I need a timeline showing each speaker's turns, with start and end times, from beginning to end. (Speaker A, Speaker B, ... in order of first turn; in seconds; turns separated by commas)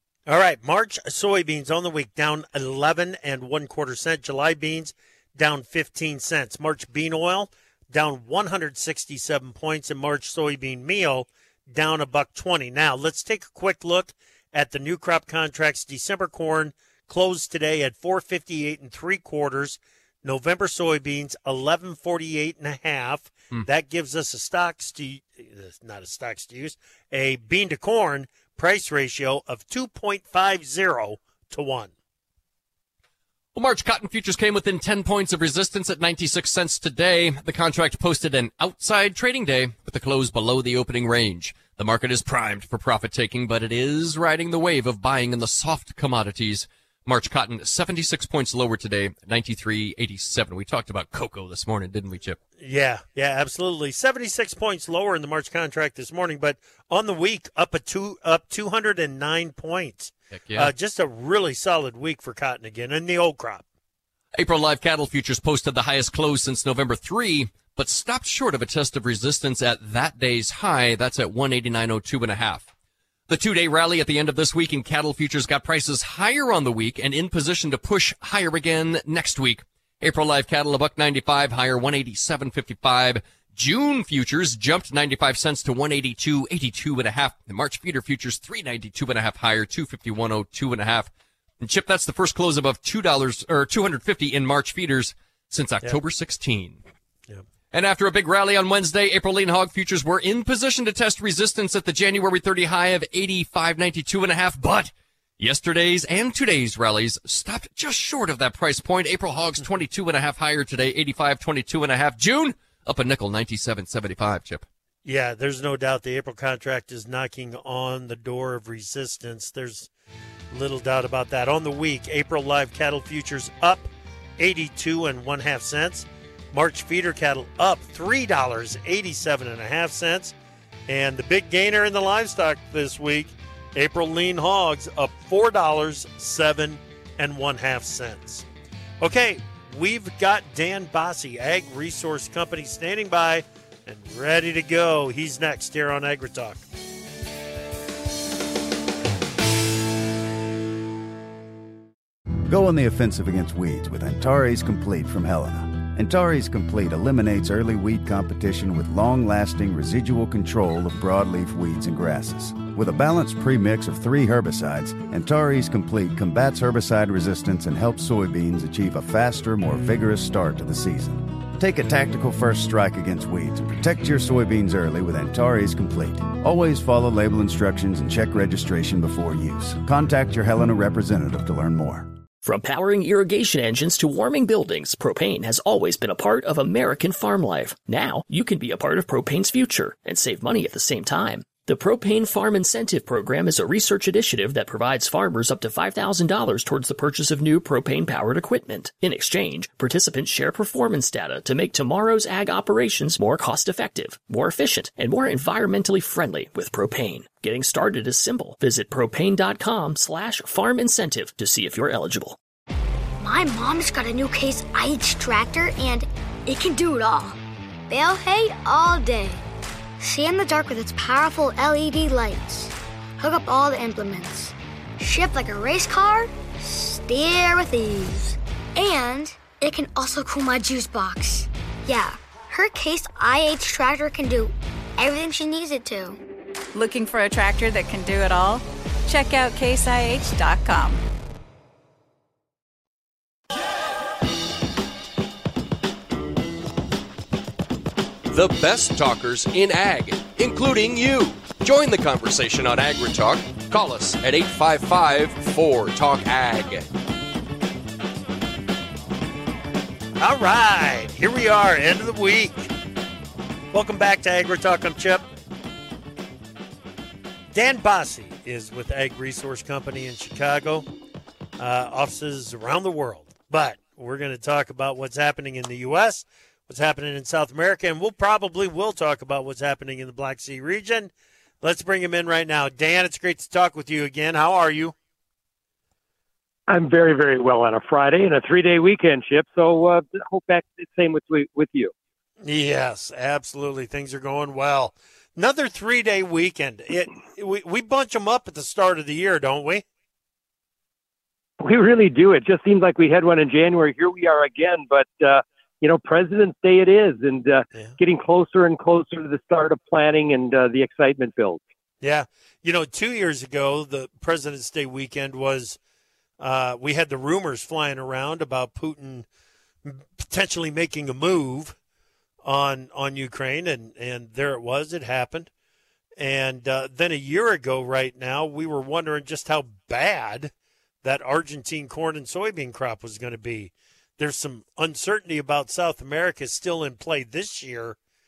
Speaker A: 0.3-31.9, Speaker B: 33.5-52.4, Speaker A: 52.6-63.6, Speaker B: 60.5-60.7, Speaker B: 64.3-72.7, Speaker B: 73.3-96.8, Speaker B: 97.7-114.7, Speaker A: 115.0-119.9, Speaker A: 120.5-130.3, Speaker A: 130.9-138.5, Speaker A: 139.0-146.6, Speaker C: 152.5-182.2, Speaker D: 182.4-212.4, Speaker E: 213.2-217.4, Speaker E: 217.9-219.4, Speaker E: 220.0-236.2, Speaker F: 236.7-241.0, Speaker B: 248.3-256.9, Speaker A: 260.2-262.7, Speaker A: 263.7-265.3, Speaker A: 267.5-270.9, Speaker A: 271.6-284.9, Speaker G: 286.7-291.9, Speaker A: 292.4-299.8, Speaker G: 301.6-311.6, Speaker A: 312.0-315.8, Speaker A: 316.4-319.3, Speaker A: 319.8-321.8, Speaker A: 322.4-325.5, Speaker A: 326.2-330.5, Speaker A: 331.0-338.0